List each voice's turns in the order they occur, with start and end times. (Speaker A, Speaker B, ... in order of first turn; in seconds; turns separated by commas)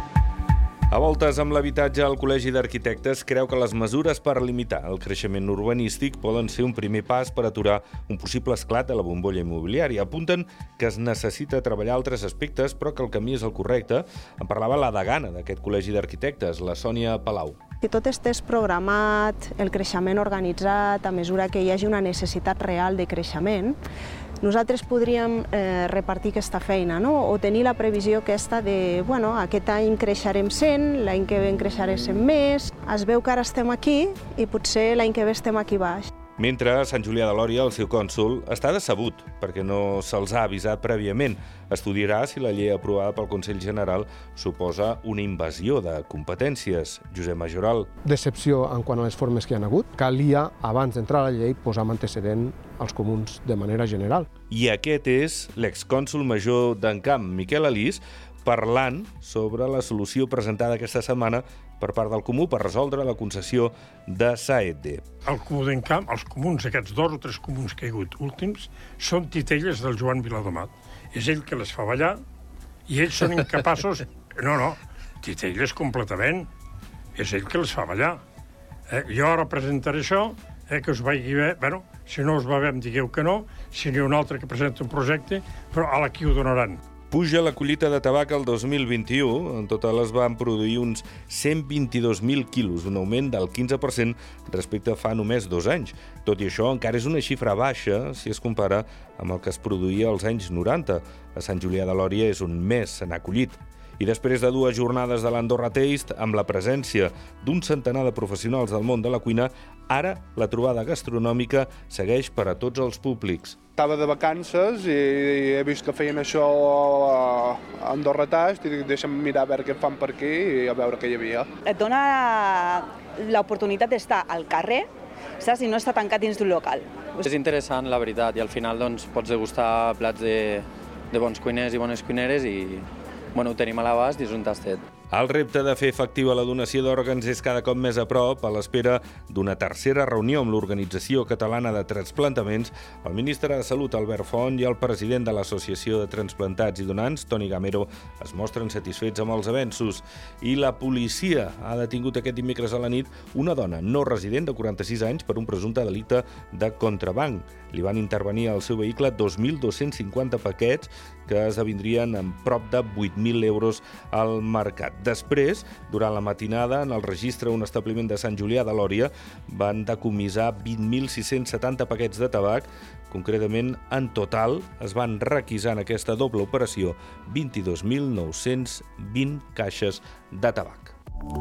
Speaker A: 0.9-17.6, Speaker B: 17.8-23.8, Speaker B: 24.4-36.1, Speaker A: 36.4-47.9, Speaker C: 48.0-54.3, Speaker A: 54.5-65.0, Speaker D: 65.2-72.2, Speaker D: 72.9-76.5, Speaker D: 77.2-78.2, Speaker D: 78.9-86.8, Speaker A: 87.1-113.6, Speaker E: 113.8-121.5, Speaker F: 121.7-124.9, Speaker F: 125.4-127.2, Speaker G: 127.2-134.8, Speaker A: 135.1-180.9